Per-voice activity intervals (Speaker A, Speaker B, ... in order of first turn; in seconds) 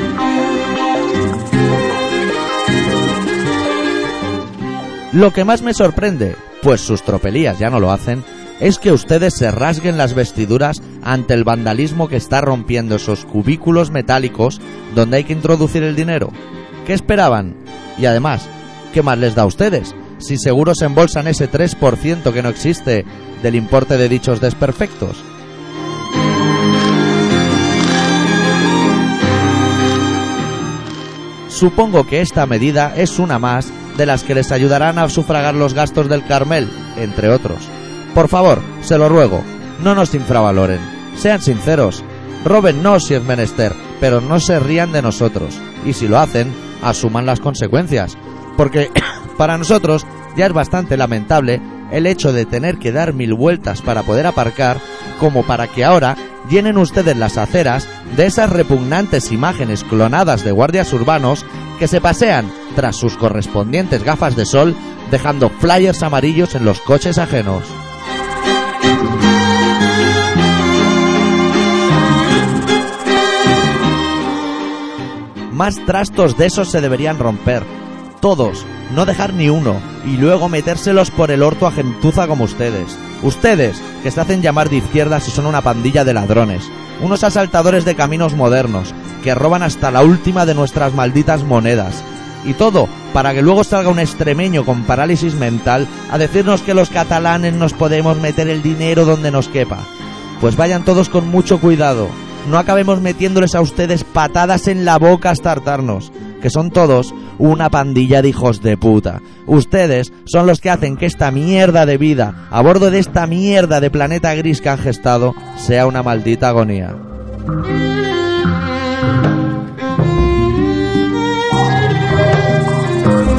Speaker A: 5.1-25.2, 31.5-67.8, 75.5-99.9, 100.4-117.0